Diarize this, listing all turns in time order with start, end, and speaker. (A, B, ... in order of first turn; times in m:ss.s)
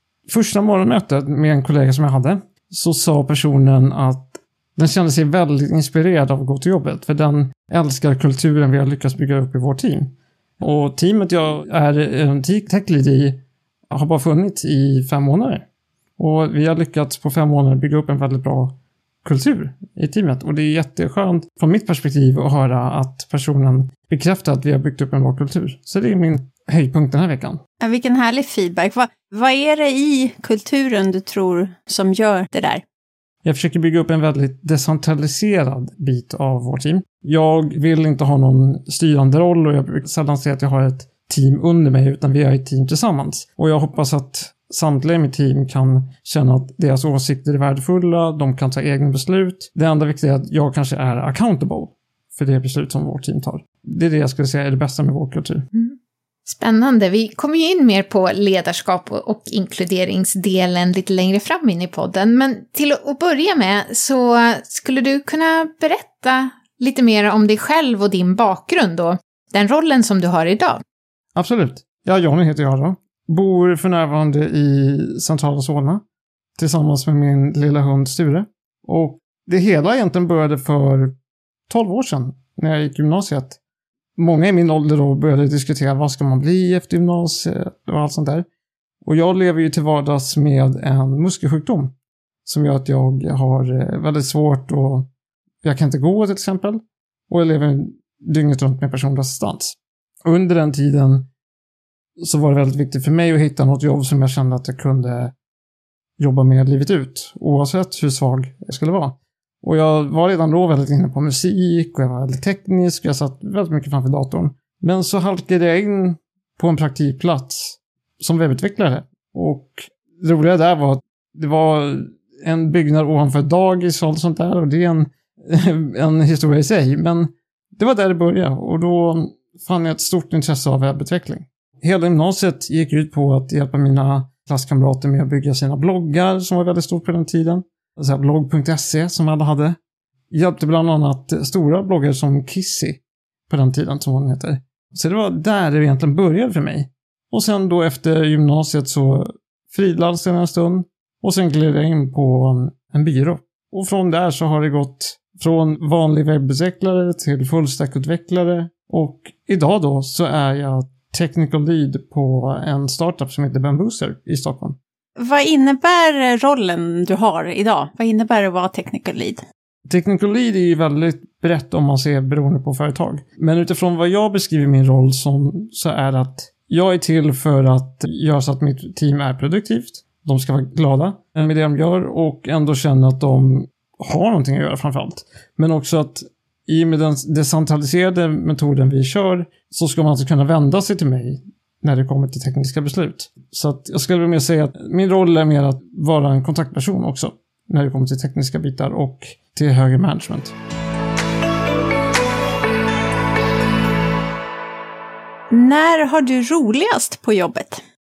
0:00.3-0:15.6 A
0:16.2-0:27.6 A
0:27.8-0:32.8 B
0:33.4-0:55.7 A
0:55.7-1:10.8 C
1:11.3-1:16.0 A
1:16.6-1:21.1 A
1:21.7-1:23.6 A
1:24.2-1:28.4 A
1:29.0-1:35.1 A
1:35.6-1:41.3 A
1:42.2-1:45.3 A
1:46.2-2:19.8 A
2:20.3-2:44.8 A
2:45.2-2:49.4 B
2:49.9-3:20.5 A
3:25.5-3:27.8 B